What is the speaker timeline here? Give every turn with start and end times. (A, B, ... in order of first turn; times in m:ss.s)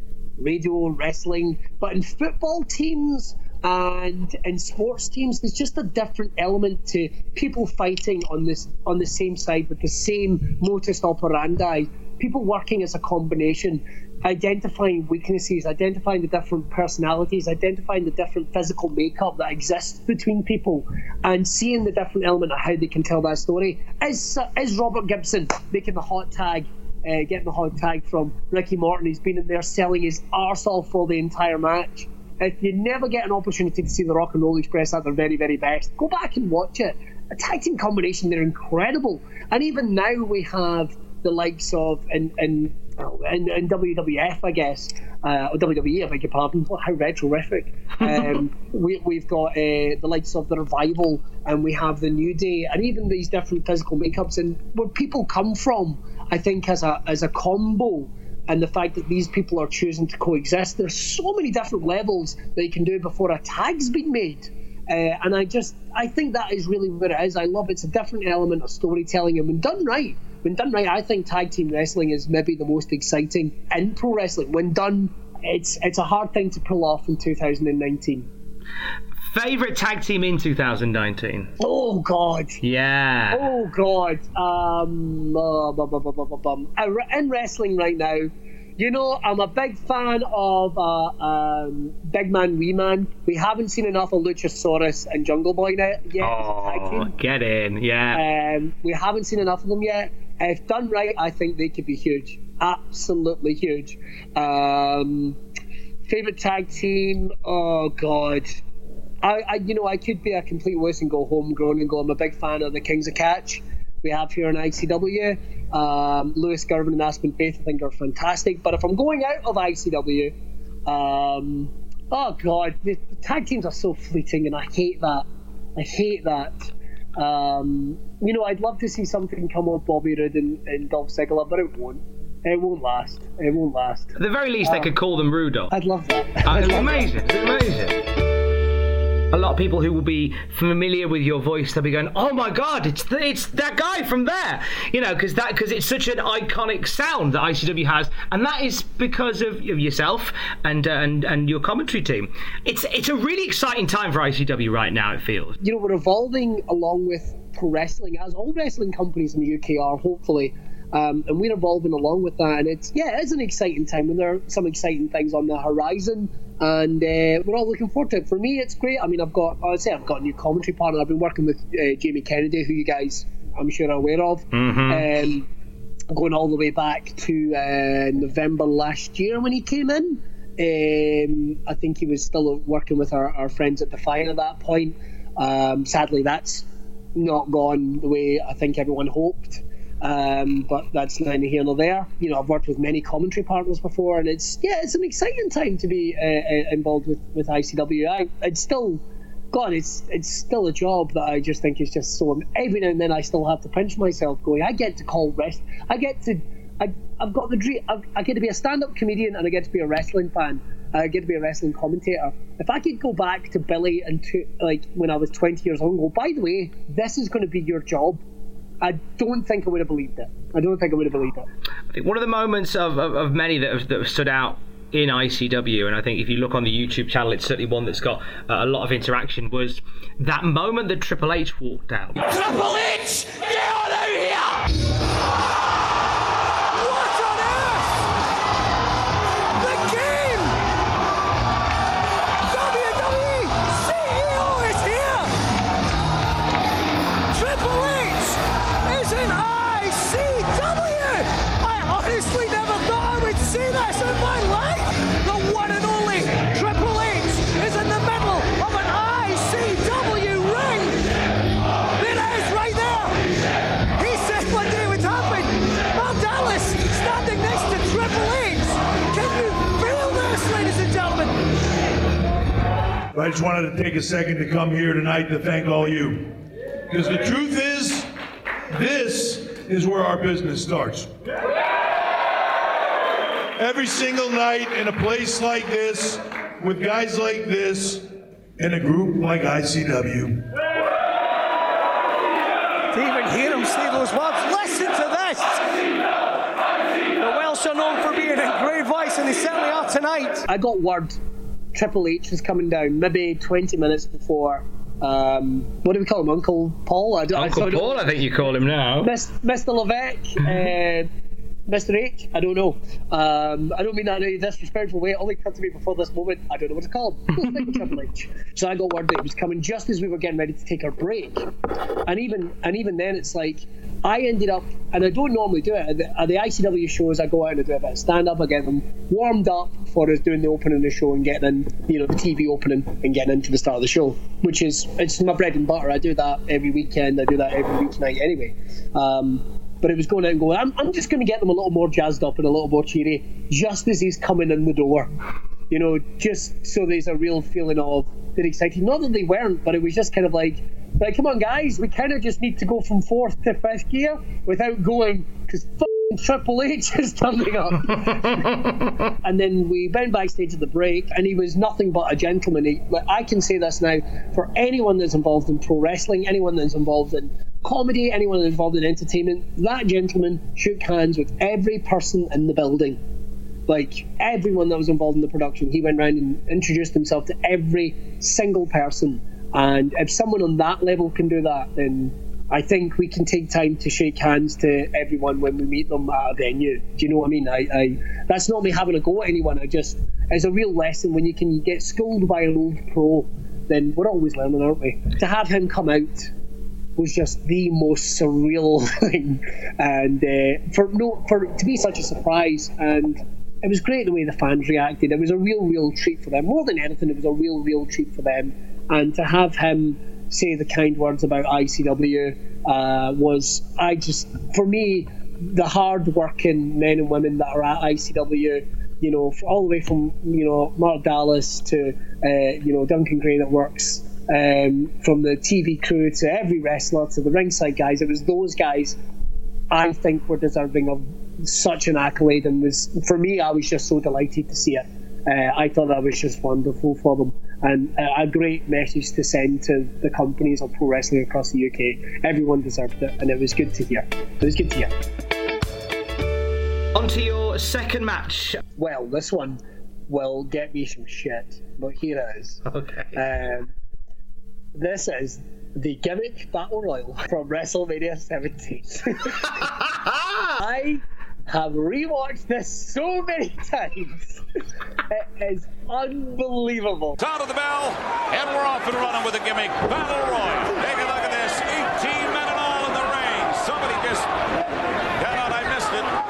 0:00.4-1:18.3 A
1:19.2-1:21.5 B
1:21.6-1:22.6 A
1:22.6-1:23.5 B
1:23.3-1:37.1 A
1:36.2-1:38.2 B
1:38.1-1:45.4 A
1:46.1-1:48.6 A
1:49.2-2:00.3 A
2:00.9-2:14.9 A
2:14.2-2:15.7 B
2:15.7-2:17.1 A
2:16.5-2:18.0 B
2:19.3-2:35.6 B
2:35.6-2:55.5 A
2:54.5-2:55.1 B
2:56.1-3:38.2 A
3:38.8-3:41.5 A
3:41.9-3:52.2 B
3:52.3-3:54.3 C
3:56.7-3:57.9 C
3:59.6-4:00.6 C
4:02.5-4:05.3 C
4:07.3-4:21.0 C
4:22.0-4:23.1 C
4:24.0-4:31.4 C
4:33.2-4:36.3 D
4:36.9-4:38.1 D
4:38.7-4:41.1 D
4:43.6-4:48.1 D
4:48.6-4:50.4 D
4:52.9-4:55.6 E
4:57.2-5:00.4 E
5:00.5-5:01.2 A
5:01.7-5:08.5 A
5:07.4-5:09.1 B
5:09.0-5:11.1 A
5:11.7-5:21.5 A
5:22.1-5:45.1 A
5:45.7-6:13.0 A
6:13.7-6:36.3 A
6:37.0-7:09.0 A
7:09.7-7:24.9 A
7:26.9-7:28.6 B
7:28.8-7:32.6 A
7:32.7-7:33.2 B
7:33.2-7:33.7 A
7:34.8-7:39.6 A
7:40.1-7:40.4 B
7:40.6-7:44.4 A
7:45.1-7:47.2 A
7:47.2-7:54.3 F
7:55.2-7:56.1 F